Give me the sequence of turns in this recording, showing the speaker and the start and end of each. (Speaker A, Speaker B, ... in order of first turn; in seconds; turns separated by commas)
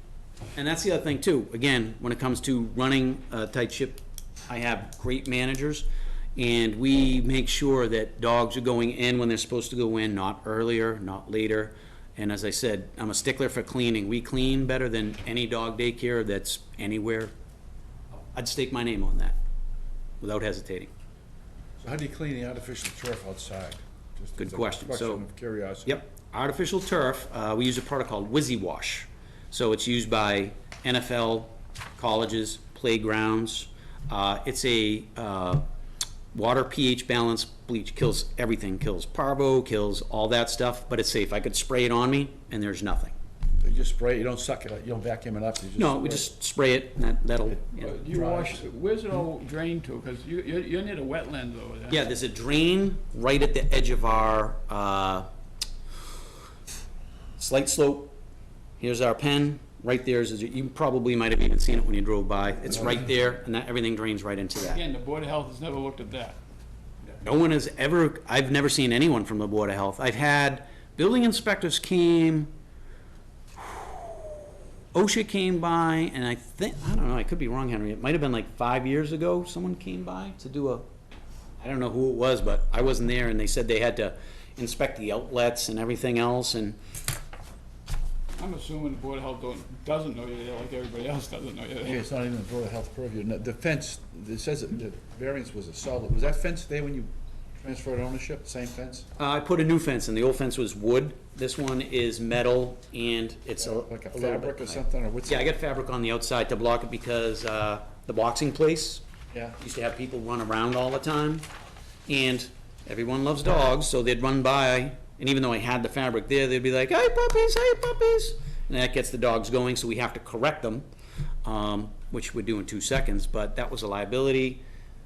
Speaker A: 0.6-17.3, Speaker A: 18.3-19.4, Speaker A: 20.2-20.9, Speaker B: 21.8-25.9, Speaker A: 24.4-25.2, Speaker A: 25.9-35.6, Speaker A: 36.3-43.1, Speaker B: 43.6-46.2, Speaker A: 45.8-47.9, Speaker B: 47.5-48.6, Speaker C: 47.8-52.1, Speaker A: 51.9-55.3, Speaker A: 57.4-58.1, Speaker A: 58.8-64.8, Speaker B: 62.7-63.0, Speaker C: 64.6-66.4, Speaker A: 67.2-72.5, Speaker A: 73.6-74.3, Speaker A: 74.9-80.9, Speaker A: 81.6-86.8, Speaker C: 88.4-92.0, Speaker B: 91.8-99.1, Speaker A: 99.2-109.0, Speaker B: 103.6-105.5, Speaker A: 109.6-111.5, Speaker A: 112.1-120.8, Speaker A: 121.4-124.6